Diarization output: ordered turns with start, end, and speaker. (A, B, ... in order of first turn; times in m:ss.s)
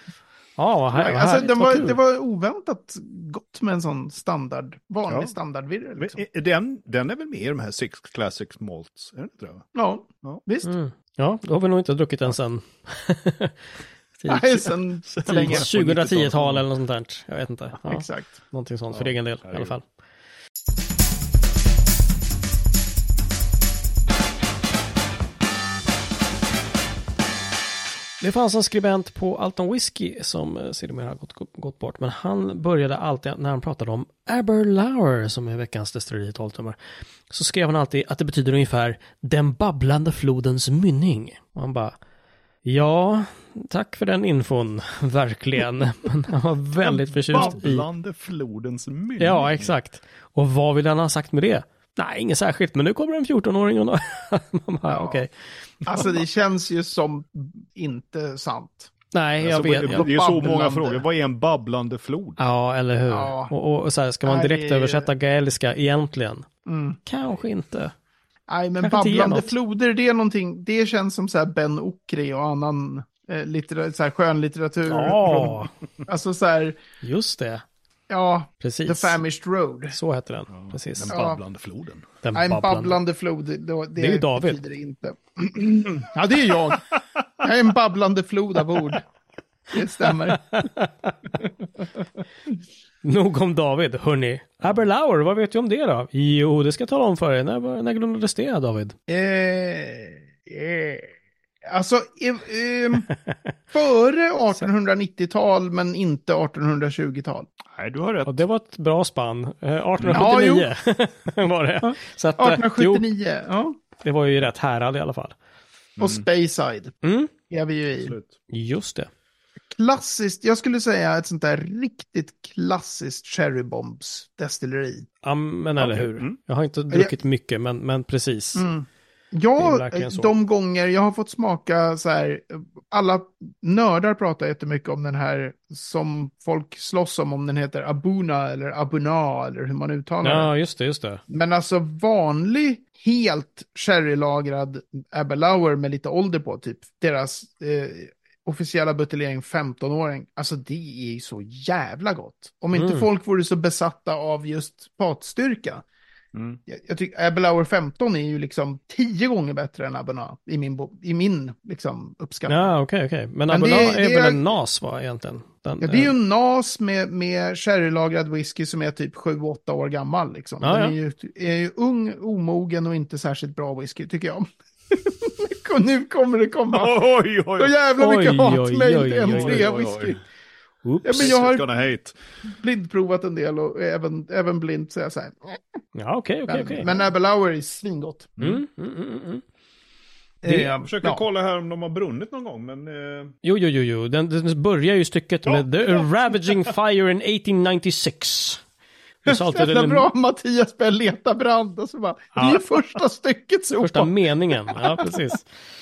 0:00.6-0:02.0 A
0:01.0-0:06.2 B
0:05.1-0:05.3 C
0:06.0-0:09.7 C
0:09.8-0:10.7 B
0:10.6-0:13.6 A
0:14.2-0:19.8 A
0:14.3-0:15.7 B
0:15.1-0:16.7 C
0:17.8-0:18.4 B
0:18.9-0:19.7 C
0:28.2-0:36.8 A
0:37.3-0:42.0 A
0:42.6-0:47.9 A
0:46.8-0:49.7 C
0:49.2-0:56.1 A
0:54.9-0:55.2 B
0:55.8-0:58.9 B
0:59.1-1:00.1 A
0:59.4-1:02.4 C
0:59.8-1:01.0 B
1:02.4-1:06.5 A
1:03.1-1:03.5 B
1:04.2-1:05.1 B
1:06.7-1:07.0 B
1:07.0-1:07.9 A
1:08.5-1:16.8 B
1:08.8-1:09.6 A
1:14.9-1:15.7 A
1:17.0-1:17.6 A
1:18.1-1:20.0 B
1:18.6-1:19.2 A
1:19.9-1:21.2 A
1:20.5-1:22.1 C
1:21.1-1:21.4 B
1:22.2-1:23.0 A
1:22.3-1:26.9 B
1:24.0-1:24.6 A
1:27.4-1:29.0 B
1:29.7-1:30.4 B
1:30.0-1:31.2 A
1:33.0-1:39.0 A
1:39.1-1:41.1 B
1:41.6-1:43.1 B
1:43.3-1:43.5 A
1:43.7-1:47.5 B
1:47.7-1:48.4 C
1:48.3-1:53.1 A
1:50.1-1:50.7 B
1:51.8-1:53.8 B
1:54.0-1:55.4 A
1:56.0-1:56.2 C
1:56.0-1:57.0 B
1:57.0-1:57.3 A
1:57.5-1:58.2 B
1:58.0-1:58.3 C
1:58.5-1:59.1 A
1:59.7-2:05.1 B
2:05.2-2:08.7 A
2:05.8-2:06.4 C
2:08.6-2:20.5 B
2:09.6-2:10.3 A
2:20.2-2:21.2 A
2:21.3-2:35.8 B
2:32.7-2:33.1 A
2:36.3-2:36.6 C
2:36.7-2:42.7 B
2:42.5-2:46.1 A
2:43.5-2:44.5 B
2:45.8-3:00.2 B
2:50.6-2:51.0 A
2:56.7-2:57.7 C
2:58.0-2:59.8 A
2:59.2-3:00.2 C
3:00.8-3:01.4 A
3:01.0-3:01.6 B
3:01.1-3:02.2 C
3:02.4-3:05.8 B
3:06.0-3:06.9 A
3:06.5-3:08.4 B
3:08.4-3:08.6 C
3:08.4-3:09.4 A
3:10.4-3:11.2 B
3:10.5-3:13.3 C
3:13.4-3:18.6 A
3:15.5-3:16.1 C
3:19.2-3:20.1 A
3:19.3-3:25.4 B
3:22.4-3:22.6 A
3:23.8-3:25.5 A